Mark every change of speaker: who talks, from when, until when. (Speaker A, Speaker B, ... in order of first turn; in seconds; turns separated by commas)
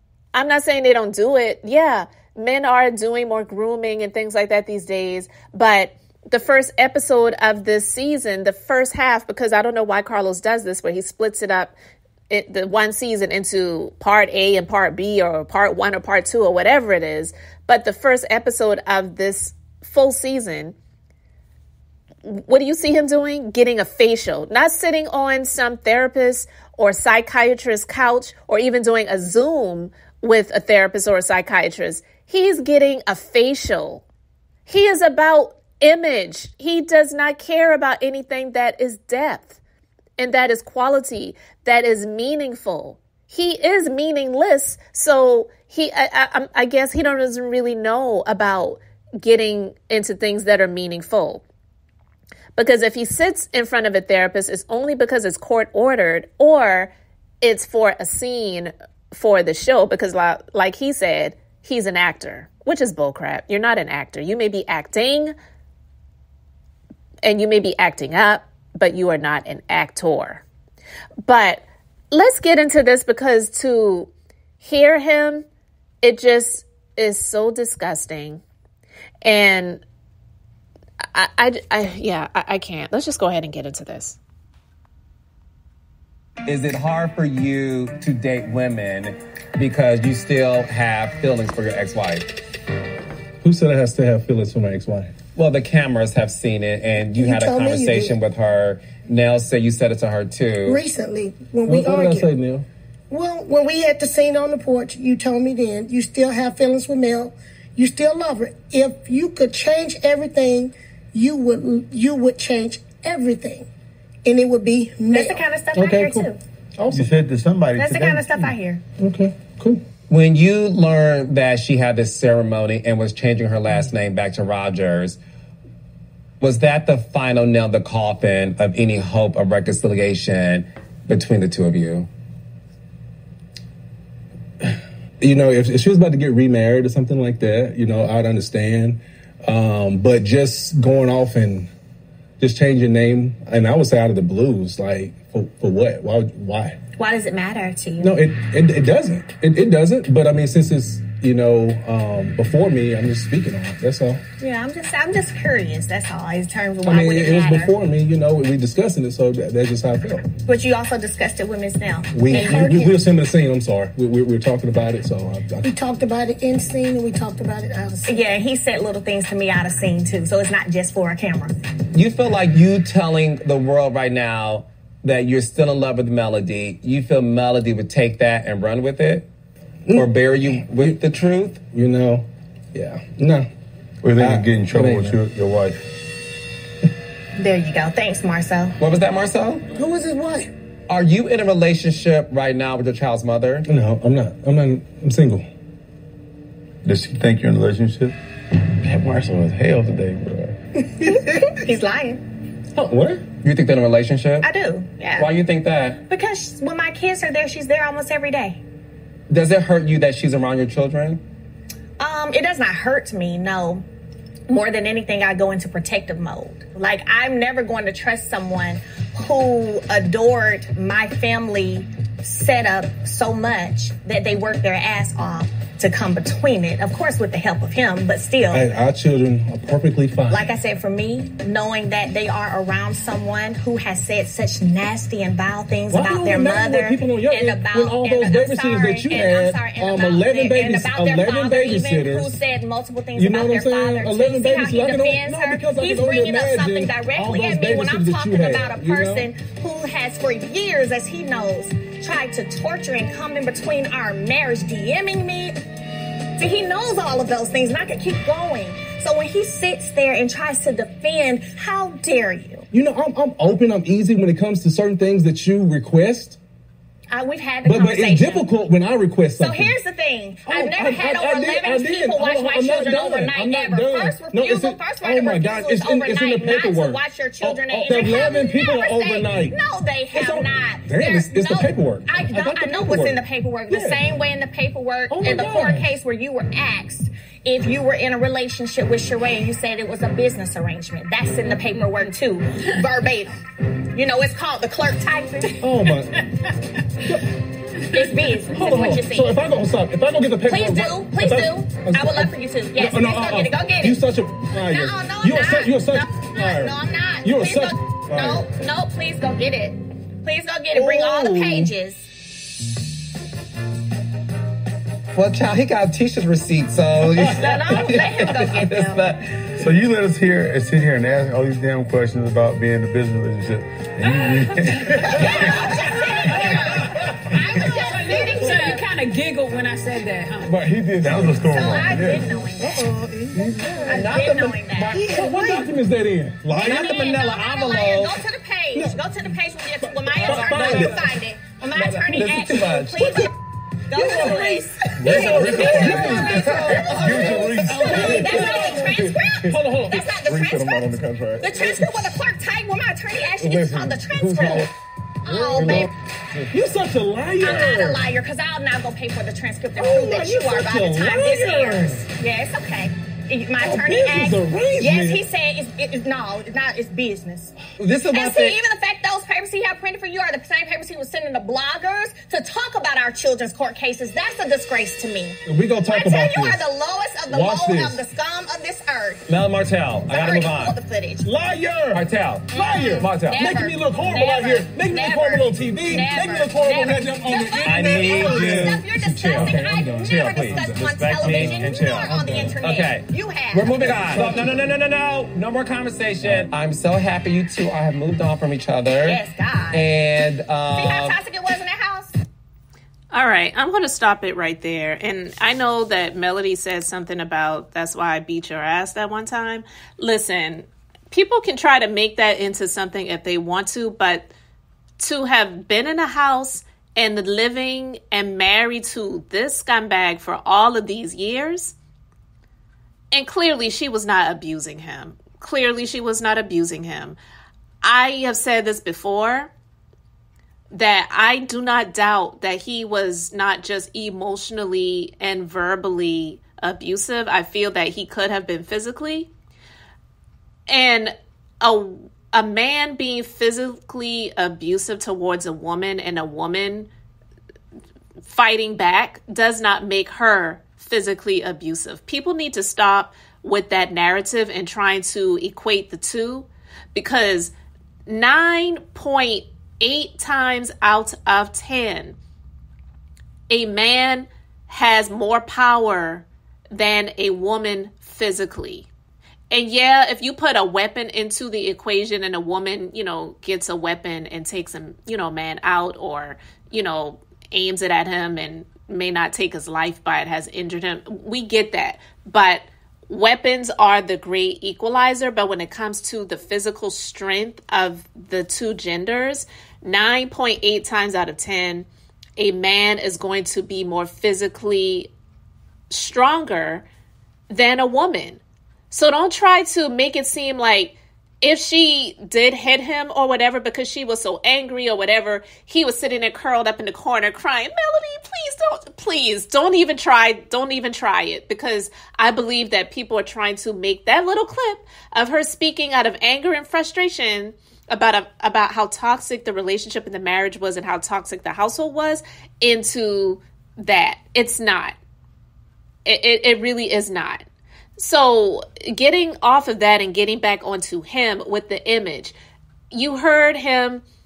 Speaker A: 0.3-11.7, Speaker A: 12.3-20.7, Speaker A: 22.2-34.0, Speaker A: 34.6-39.6, Speaker A: 40.2-51.4, Speaker A: 52.5-65.3, Speaker A: 67.2-70.4, Speaker A: 71.2-74.1, Speaker A: 74.6-75.4, Speaker A: 76.0-78.4, Speaker A: 79.2-79.8, Speaker A: 81.1-84.2, Speaker B: 86.5-92.3, Speaker C: 93.4-95.1, Speaker B: 95.3-100.8, Speaker D: 97.1-98.2, Speaker D: 100.6-102.3, Speaker C: 101.7-102.7, Speaker D: 103.1-113.7, Speaker D: 114.2-115.4, Speaker E: 115.1-116.4, Speaker C: 115.7-117.1, Speaker F: 116.9-118.3, Speaker E: 117.8-118.8, Speaker C: 119.0-119.8, Speaker B: 120.1-125.2, Speaker B: 126.4-132.1, Speaker C: 134.6-141.7, Speaker C: 142.4-146.8, Speaker E: 147.0-148.1, Speaker C: 148.0-154.2, Speaker E: 154.4-157.7, Speaker C: 156.8-160.3, Speaker E: 160.4-162.8, Speaker C: 162.1-165.7, Speaker D: 162.3-163.0, Speaker D: 165.6-168.2, Speaker E: 168.1-171.6, Speaker B: 171.9-179.3, Speaker B: 179.9-181.6, Speaker C: 180.7-181.0, Speaker C: 181.7-183.5, Speaker F: 184.0-185.8, Speaker C: 184.2-185.2, Speaker E: 187.3-188.7, Speaker B: 188.8-189.6, Speaker D: 189.7-190.5, Speaker B: 190.9-193.7, Speaker C: 193.7-195.4, Speaker F: 196.8-198.1, Speaker F: 198.8-200.6, Speaker E: 201.0-202.2, Speaker C: 202.7-203.2, Speaker B: 203.4-204.5, Speaker E: 204.4-205.3, Speaker B: 205.1-206.0, Speaker E: 206.1-208.6, Speaker B: 209.3-211.2, Speaker E: 212.0-213.8, Speaker E: 214.5-228.7, Speaker C: 228.5-230.5, Speaker E: 230.3-255.6, Speaker C: 235.9-242.3, Speaker C: 243.1-249.3, Speaker E: 256.4-262.6, Speaker C: 262.7-266.4, Speaker E: 267.1-268.4, Speaker C: 267.6-269.8, Speaker E: 269.4-293.4, Speaker C: 270.4-279.6, Speaker C: 280.1-284.1, Speaker C: 285.1-285.9, Speaker E: 293.9-296.0, Speaker C: 295.6-296.2, Speaker C: 297.0-297.3, Speaker E: 297.9-299.4, Speaker G: 298.0-298.2, Speaker C: 298.5-308.5, Speaker E: 300.5-304.0, Speaker E: 304.5-312.1, Speaker C: 310.7-311.7, Speaker B: 315.1-319.6, Speaker E: 317.1-319.0, Speaker F: 319.6-325.6, Speaker G: 324.0-330.6, Speaker E: 325.1-328.8, Speaker C: 330.4-332.7, Speaker F: 330.6-332.4, Speaker E: 331.4-332.9, Speaker D: 332.6-333.8, Speaker C: 333.3-337.1, Speaker E: 333.8-335.6, Speaker B: 334.0-335.0, Speaker F: 336.4-336.8, Speaker E: 336.5-343.3, Speaker B: 336.6-338.2, Speaker C: 338.7-339.0, Speaker C: 340.0-341.1, Speaker B: 340.1-341.0, Speaker B: 341.7-343.2, Speaker C: 343.0-343.3, Speaker E: 343.9-354.7, Speaker C: 343.9-350.5, Speaker F: 345.0-349.1, Speaker B: 345.2-348.0, Speaker F: 350.3-351.8, Speaker C: 353.5-354.6, Speaker E: 355.2-355.9, Speaker C: 355.5-355.9, Speaker F: 355.6-355.8, Speaker C: 356.5-358.1, Speaker E: 357.4-367.5, Speaker C: 359.7-362.1, Speaker C: 363.6-365.2, Speaker B: 367.8-368.6, Speaker E: 368.1-379.2, Speaker C: 375.4-376.6, Speaker C: 377.3-378.0, Speaker B: 379.3-380.8, Speaker E: 380.1-381.3, Speaker C: 381.2-392.6, Speaker B: 381.9-383.5, Speaker E: 382.5-394.5, Speaker B: 387.6-399.2, Speaker C: 394.0-394.5, Speaker C: 396.2-396.5, Speaker E: 398.9-399.9, Speaker B: 399.7-401.2, Speaker E: 400.7-402.1, Speaker A: 403.1-414.3, Speaker A: 415.0-421.7, Speaker A: 423.1-427.2, Speaker A: 427.8-429.5, Speaker A: 430.7-439.3, Speaker A: 440.7-446.9, Speaker A: 448.2-457.5, Speaker A: 458.1-462.1, Speaker A: 463.5-468.9, Speaker A: 469.5-495.1, Speaker A: 495.9-496.9, Speaker A: 497.5-525.0, Speaker A: 526.0-527.4, Speaker A: 528.0-532.3, Speaker A: 532.9-534.0